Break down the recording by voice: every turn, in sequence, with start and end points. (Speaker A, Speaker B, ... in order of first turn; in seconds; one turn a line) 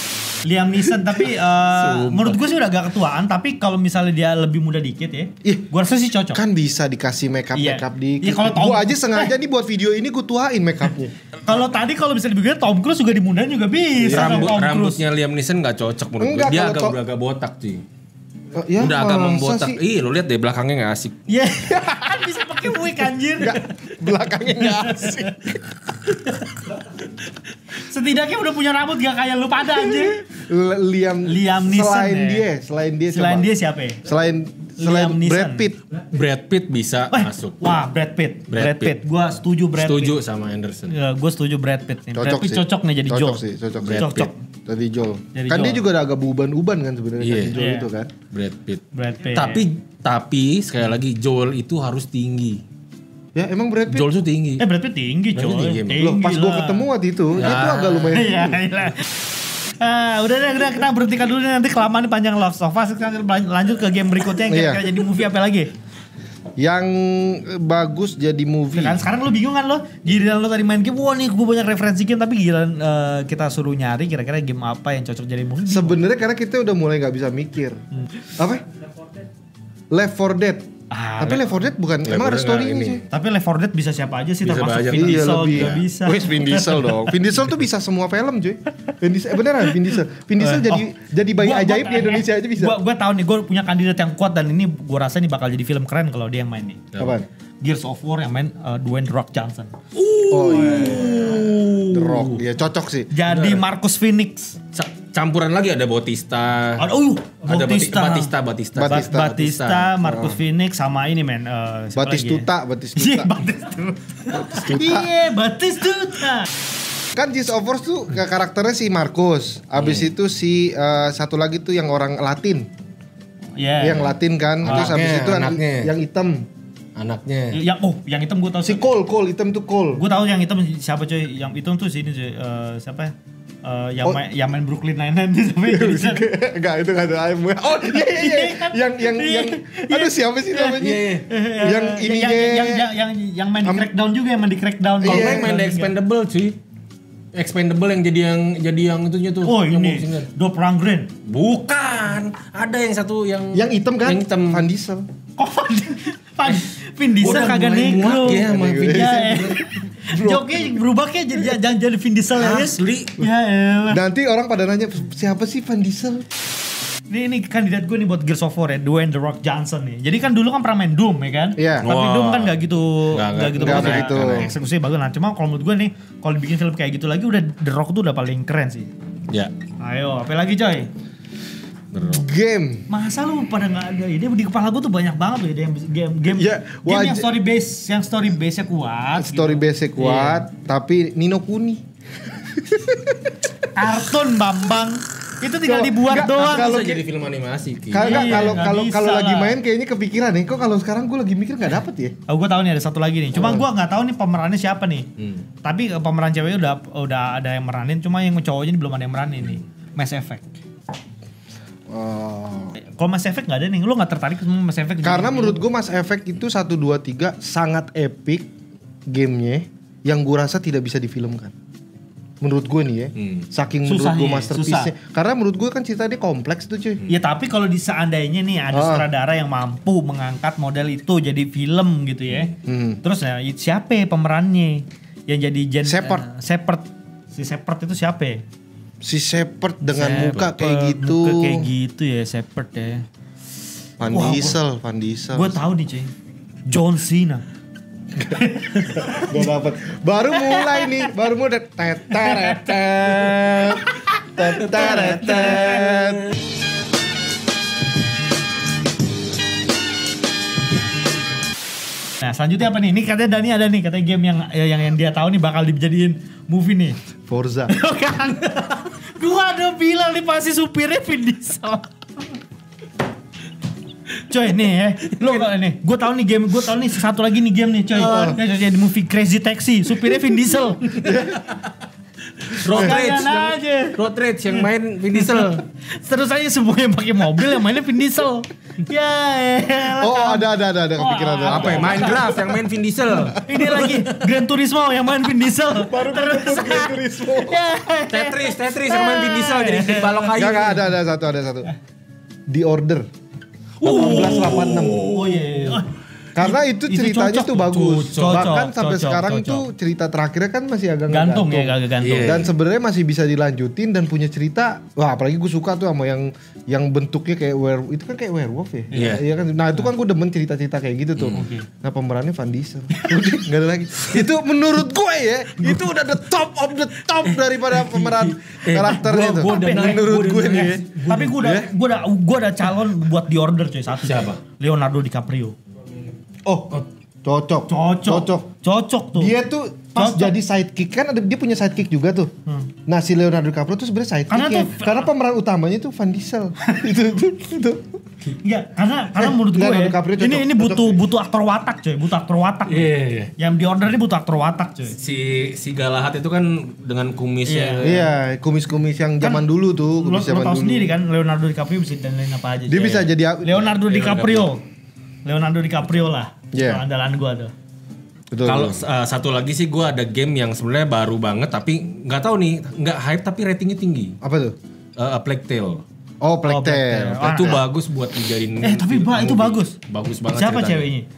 Speaker A: 0.4-6.4
Speaker B: 1.6-2.4
Speaker C: 6.3-11.1
Speaker A: 7.5-9.3
Speaker A: 11.4-15.0
Speaker C: 14.0-14.5
Speaker B: 14.0-17.8
Speaker C: 16.2-17.0
Speaker C: 18.5-19.8
Speaker B: 18.8-21.1
Speaker A: 21.3-23.6
Speaker C: 21.7-22.3
Speaker C: 23.4-25.6
Speaker A: 24.6-25.2
Speaker A: 27.7-30.2
Speaker C: 29.8-33.5
Speaker A: 31.2-32.5
Speaker A: 33.1-34.0
Speaker C: 34.0-35.8
Speaker A: 34.8-35.7
Speaker B: 36.1-37.6
Speaker A: 37.1-40.2
Speaker B: 38.5-39.0
Speaker B: 39.7-40.9
Speaker A: 40.9-43.4
Speaker C: 42.1-48.1
Speaker B: 43.8-44.3
Speaker A: 43.9-44.4
Speaker A: 45.3-45.8
Speaker B: 47.2-47.6
Speaker A: 47.5-47.9
Speaker B: 48.3-52.6
Speaker A: 48.9-49.6
Speaker C: 53.3-54.1
Speaker B: 53.9-54.6
Speaker A: 54.6-56.9
Speaker B: 55.3-56.1
Speaker C: 56.0-58.6
Speaker B: 57.4-58.2
Speaker A: 58.1-65.7
Speaker C: 64.5-64.8
Speaker C: 66.6-69.0
Speaker A: 68.7-76.0
Speaker C: 75.7-77.8
Speaker C: 78.4-78.6
Speaker C: 79.9-80.7
Speaker A: 80.9-81.5
Speaker C: 81.2-83.0
Speaker B: 82.0-83.0
Speaker A: 83.1-87.0
Speaker B: 84.4-85.8
Speaker C: 84.9-92.7
Speaker A: 90.4-90.8
Speaker A: 91.4-96.8
Speaker C: 97.0-97.3
Speaker A: 97.6-99.7
Speaker B: 99.9-102.4
Speaker C: 100.3-103.1
Speaker A: 103.1-104.6
Speaker B: 103.2-103.6
Speaker B: 104.7-106.8
Speaker A: 106.8-108.3
Speaker B: 107.5-110.0
Speaker C: 108.7-109.3
Speaker A: 108.8-116.5
Speaker C: 110.0-110.4
Speaker C: 112.0-113.4
Speaker C: 114.5-115.1
Speaker C: 117.1-122.7
Speaker B: 119.8-120.1
Speaker A: 123.6-124.1
Speaker C: 123.8-126.5
Speaker B: 124.6-125.9
Speaker B: 127.0-127.6
Speaker A: 127.5-128.8
Speaker C: 128.6-130.0
Speaker A: 130.0-136.2
Speaker C: 135.7-142.9
Speaker A: 137.8-145.9
Speaker B: 140.8-141.2
Speaker C: 143.6-143.9
Speaker C: 145.0-145.6
Speaker B: 145.0-146.6
Speaker B: 147.3-150.3
Speaker A: 149.4-151.1
Speaker B: 151.2-154.7
Speaker C: 153.5-155.1
Speaker A: 155.4-164.0
Speaker B: 157.2-159.6
Speaker C: 158.2-160.6
Speaker B: 162.3-163.2
Speaker C: 163.9-166.2
Speaker A: 167.1-178.9
Speaker C: 171.6-171.8
Speaker B: 171.8-174.5
Speaker C: 173.6-174.5
Speaker A: 179.8-180.9
Speaker B: 181.9-182.3
Speaker C: 182.0-182.8
Speaker A: 182.9-190.4
Speaker C: 186.3-187.3
Speaker C: 189.2-191.8
Speaker C: 192.3-193.3
Speaker A: 193.7-196.8
Speaker C: 195.6-197.0
Speaker B: 196.2-198.6
Speaker C: 197.9-202.1
Speaker A: 197.9-199.6
Speaker A: 202.3-205.1
Speaker C: 203.3-203.7
Speaker B: 205.2-205.4
Speaker A: 205.6-210.4
Speaker C: 211.9-212.7
Speaker A: 212.8-215.6
Speaker C: 215.0-218.5
Speaker C: 219.1-221.5
Speaker C: 222.4-227.0
Speaker B: 223.2-223.5
Speaker A: 223.8-224.9
Speaker A: 227.1-238.4
Speaker C: 228.7-229.1
Speaker C: 232.6-233.0
Speaker C: 235.8-236.2
Speaker C: 239.0-241.7
Speaker A: 239.8-243.1
Speaker C: 244.0-245.6
Speaker A: 244.1-244.6
Speaker A: 245.3-246.1
Speaker A: 246.7-247.4
Speaker C: 248.2-256.3
Speaker A: 248.3-249.4
Speaker A: 250.4-250.9
Speaker A: 252.1-252.6
Speaker A: 254.4-255.8
Speaker B: 254.5-256.3
Speaker A: 262.2-267.0
Speaker C: 267.3-267.7
Speaker A: 267.7-272.4
Speaker A: 274.3-281.1
Speaker C: 277.9-278.4
Speaker C: 281.0-281.4
Speaker B: 282.5-285.6
Speaker C: 282.7-283.0
Speaker A: 282.7-284.0
Speaker A: 285.9-290.4
Speaker C: 290.0-292.4
Speaker A: 291.0-292.3
Speaker B: 291.5-294.2
Speaker A: 293.3-300.4
Speaker C: 295.7-297.6
Speaker B: 298.1-300.9
Speaker C: 300.3-301.7
Speaker C: 302.5-303.1
Speaker B: 303.8-305.8
Speaker C: 303.8-305.0
Speaker A: 303.9-304.4
Speaker A: 305.0-309.7
Speaker C: 306.3-331.7
Speaker B: 307.7-308.6
Speaker A: 311.1-312.3
Speaker B: 312.0-312.5
Speaker A: 318.9-319.2
Speaker B: 318.9-319.2
Speaker B: 321.2-321.5
Speaker A: 321.4-321.7
Speaker A: 322.9-323.4
Speaker B: 325.6-325.9
Speaker B: 327.2-331.4
Speaker A: 329.4-329.9
Speaker A: 331.1-335.5
Speaker B: 334.0-334.4
Speaker C: 336.4-336.7
Speaker C: 337.2-338.5
Speaker A: 337.7-339.3
Speaker C: 339.1-342.3
Speaker A: 339.9-340.3
Speaker C: 342.9-347.8
Speaker A: 344.3-345.1
Speaker A: 346.6-346.9
Speaker A: 348.4-354.9
Speaker C: 349.1-351.0
Speaker B: 352.7-353.3
Speaker B: 354.9-358.1
Speaker A: 357.4-357.9
Speaker C: 357.8-360.9
Speaker A: 360.0-364.6
Speaker C: 362.7-363.7
Speaker B: 363.8-364.5
Speaker A: 365.2-367.5
Speaker C: 366.5-366.8
Speaker C: 368.3-368.8
Speaker B: 368.4-374.1
Speaker C: 374.2-374.6
Speaker B: 375.0-375.8
Speaker C: 376.2-377.6
Speaker A: 376.4-377.6
Speaker B: 377.2-380.9
Speaker A: 378.6-381.1